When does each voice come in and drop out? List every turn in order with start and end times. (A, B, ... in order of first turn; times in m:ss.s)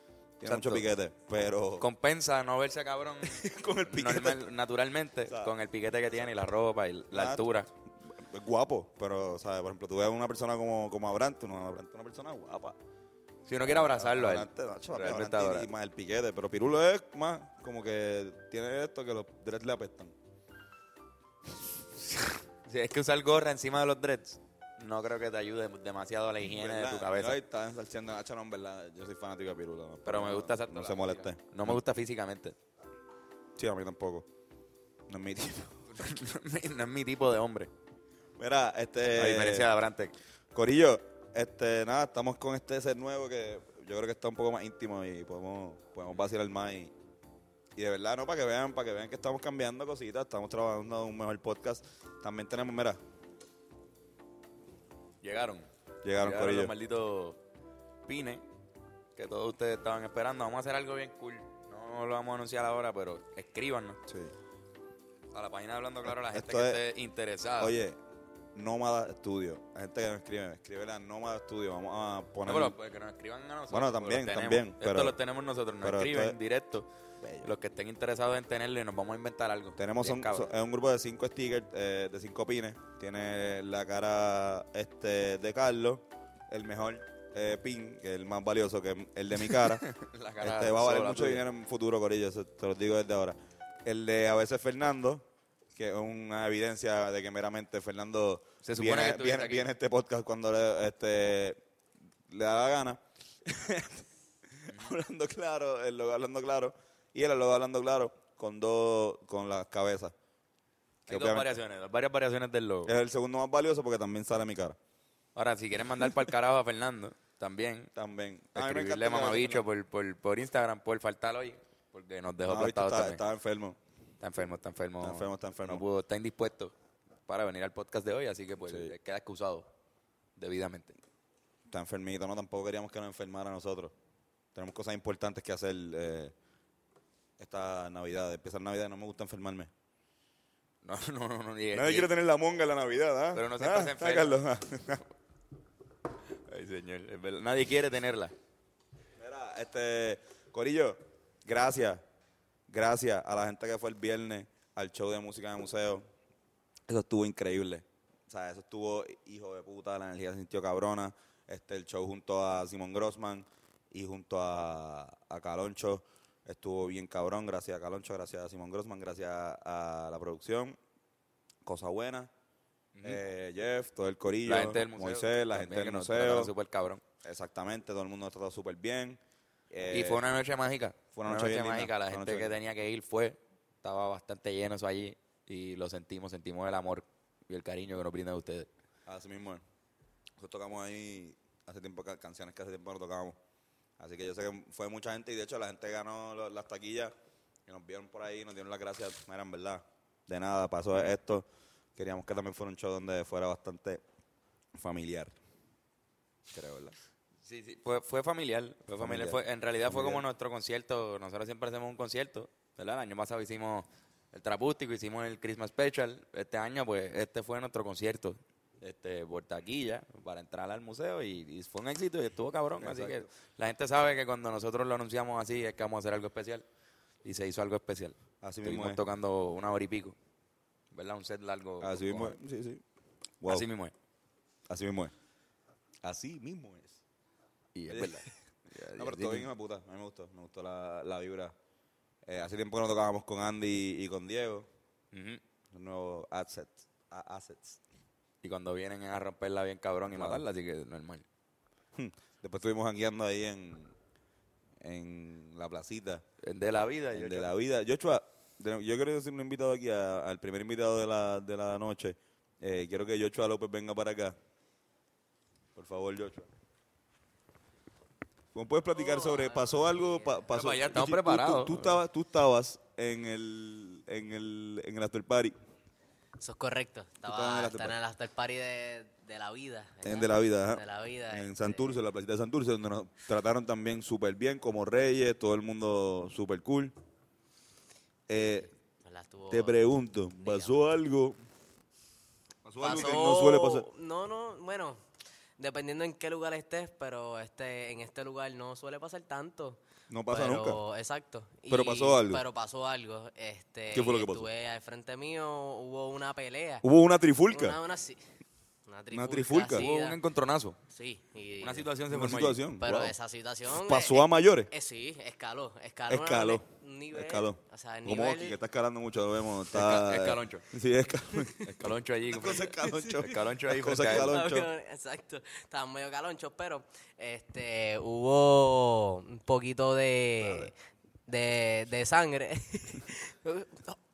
0:00.4-0:01.9 A
0:00.4-0:00.9 B
0:01.8-0:07.7 B
0:03.2-0:04.4 A
0:05.3-0:05.5 A
0:07.1-0:07.5 A
0:08.1-0:12.8 A
0:13.5-0:15.7 B
0:13.6-0:20.1 A
0:22.6-0:27.4 B
0:26.4-0:31.8 A
0:30.0-0:32.6 B
0:33.6-0:34.3 A
0:35.1-0:36.0 A
0:35.9-0:37.7 B
0:38.4-0:39.7 A
0:39.1-0:40.1 B
0:40.5-0:46.9 A
0:47.8-0:53.0 A
0:55.2-0:55.7 B
0:56.0-0:56.7 A
0:56.2-0:57.4 B
0:58.1-0:58.4 B
0:59.2-1:04.0 B
1:04.1-1:04.3 A
1:05.3-1:07.8 B
1:06.0-1:06.8 A
1:07.6-1:08.0 A
1:08.6-1:12.7 A
1:12.5-1:16.9 B
1:13.7-1:15.2 A
1:15.8-1:16.4 A
1:17.2-1:17.5 A
1:17.4-1:20.5 B
1:19.8-1:29.8 A
1:29.5-1:31.4 B
1:30.4-1:35.2 A
1:35.8-1:41.6 A
1:38.6-1:39.7 B
1:42.3-1:50.1 A
1:44.7-1:44.9 B
1:51.1-1:51.6 A
1:51.1-1:52.9 B
1:52.9-1:54.8 A
1:55.4-1:57.9 B
1:58.0-1:59.6 A
1:58.5-2:03.2 B
2:02.5-2:03.8 A
2:04.2-2:06.7 B
2:05.0-2:05.8 A
2:07.3-2:09.7 B
2:08.6-2:08.9 A
2:10.4-2:11.0 B
2:11.7-2:13.9 A
2:14.6-2:16.3 A
2:17.4-2:19.7 A
2:20.8-2:22.1 B
2:21.7-2:25.0 A
2:23.3-2:24.4 B
2:26.5-2:28.3 B
2:29.2-2:32.0 A
2:32.7-2:36.0 A
2:36.9-2:50.8 A
2:51.6-2:52.3 A
2:52.9-2:53.2 B
2:53.0-2:56.5 A
2:54.4-2:57.0 B
2:57.2-3:00.3 A
2:59.9-3:08.7 B
3:01.1-3:02.6 A
3:09.1-3:09.6 A
3:10.4-3:13.4 A
3:14.0-3:17.1 A
3:17.7-3:24.0 A
3:24.7-3:25.4 A
3:26.5-3:27.0 A
3:27.4-3:46.7 B
3:29.0-3:30.2 A
3:42.8-3:43.3 A
3:47.2-3:50.2 B
3:48.4-3:49.0 A
3:50.9-3:52.4 B
3:51.8-3:52.8 A
3:53.4-3:53.7 A
3:53.5-3:53.9 B
3:54.7-3:55.1 A
3:56.0-3:57.0 A
3:57.8-3:59.5 B
3:57.9-3:58.3 A
3:59.0-4:01.5 A
4:02.2-4:04.7 A
4:05.1-4:05.4 B
4:05.7-4:07.8 A
4:08.4-4:11.2 B
4:10.1-4:10.4 A
4:12.0-4:13.9 A
4:14.8-4:16.2 A
4:16.4-4:17.5 B
4:17.1-4:24.4 A
4:25.8-4:26.5 A
4:28.5-4:35.5 A
4:29.0-4:30.3 C
4:30.5-4:32.0 B
4:36.4-4:42.0 C
4:37.2-4:38.0 A
4:40.0-4:46.9 A
4:48.3-4:48.7 A
4:49.0-4:49.8 C
4:49.5-4:51.4 A
4:50.4-4:50.8 C
4:52.6-4:53.9 A
4:52.8-4:55.0 C
4:55.6-5:06.8 C
5:00.1-5:00.8 A
5:01.7-5:02.4 A
5:03.9-5:04.5 A
5:06.8-5:07.8 A
5:07.5-5:08.2 C
5:08.9-5:10.2 C
5:09.1-5:09.9 A
5:09.7-5:10.8 B
5:10.9-5:11.9 C
5:11.6-5:12.6 B
5:12.1-5:13.2 A
5:12.8-5:18.6 C
5:13.7-5:14.7 A
5:16.1-5:24.7 A
5:19.7-5:20.7 B
5:21.3-5:21.6 C
5:21.6-5:24.4 B
5:22.8-5:23.1 C
5:24.0-5:30.7 C
5:30.4-5:30.7 A
5:31.3-5:34.0 C